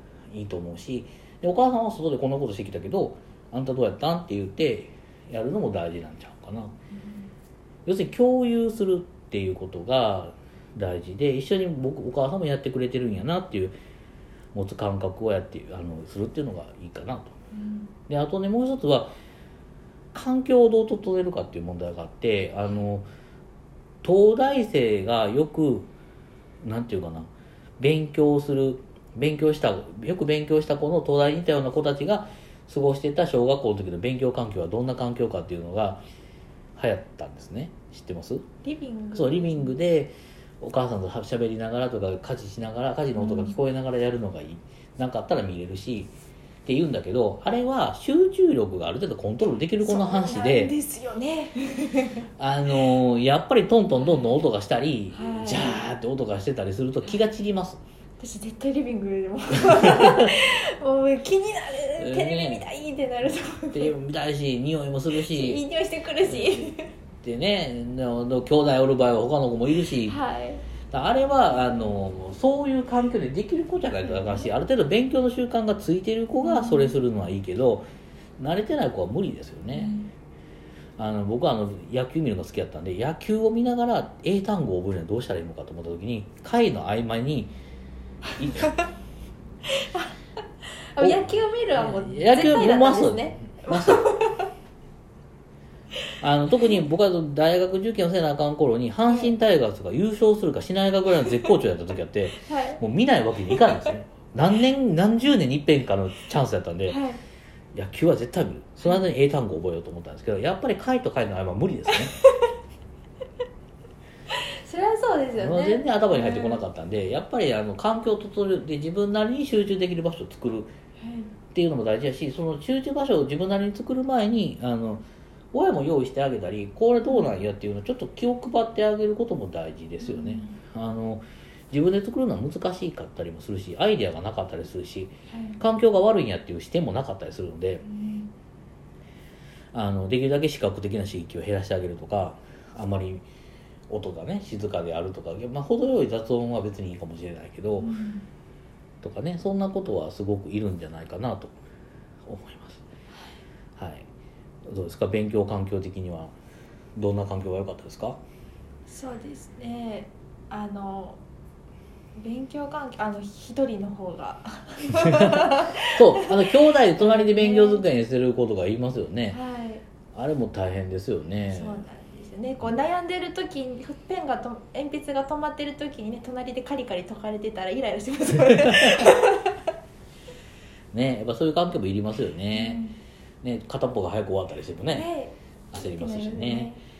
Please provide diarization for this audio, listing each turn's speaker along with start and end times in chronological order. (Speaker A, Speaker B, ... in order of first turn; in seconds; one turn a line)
Speaker A: 0.3-6.8
Speaker B: 6.9-7.3
Speaker A: 7.9-13.8
Speaker A: 14.5-17.3
Speaker B: 17.5-17.9
Speaker A: 18.1-19.1
Speaker A: 20.1-23.1
Speaker A: 24.0-25.9
Speaker A: 26.6-36.0
Speaker A: 36.8-38.5
Speaker B: 38.6-39.8
Speaker A: 39.1-46.1
Speaker B: 43.2-43.5
Speaker A: 46.7-50.7
Speaker B: 49.8-52.3
Speaker A: 52.4-57.8
Speaker B: 55.1-55.8
Speaker B: 58.2-64.0
Speaker A: 62.0-62.6
Speaker A: 63.7-65.6
Speaker B: 65.1-66.9
Speaker A: 66.3-70.2
Speaker B: 70.0-70.6
Speaker A: 70.9-77.9
Speaker B: 74.1-74.5
Speaker B: 76.4-77.0
Speaker A: 78.4-79.9
Speaker B: 79.7-80.1
Speaker A: 81.0-87.5
Speaker A: 88.4-88.7
Speaker B: 88.4-88.8
Speaker B: 89.7-90.1
Speaker B: 90.6-94.5
Speaker A: 91.0-94.1
Speaker A: 96.2-107.0
Speaker B: 99.1-99.3
Speaker B: 102.4-102.8
Speaker B: 106.9-107.2
Speaker A: 107.7-112.1
Speaker B: 114.3-116.6
Speaker A: 115.4-120.7
Speaker B: 121.0-121.3
Speaker A: 121.5-137.8
Speaker B: 127.0-127.4
Speaker B: 130.0-130.6
Speaker B: 135.3-135.6
Speaker B: 137.8-138.3
Speaker A: 139.7-143.2
Speaker A: 143.9-147.9
Speaker B: 147.8-148.3
Speaker A: 149.0-151.5
Speaker A: 152.3-152.8
Speaker B: 153.1-153.4
Speaker A: 153.8-154.1
Speaker A: 154.7-156.3
Speaker A: 157.0-158.2
Speaker B: 158.9-161.2
Speaker B: 162.2-167.9
Speaker A: 165.9-169.4
Speaker B: 169.3-169.8
Speaker A: 170.1-171.8
Speaker B: 171.5-179.5
Speaker A: 180.9-182.8
Speaker B: 182.5-183.0
Speaker A: 183.4-185.1
Speaker B: 184.9-186.8
Speaker A: 185.7-186.7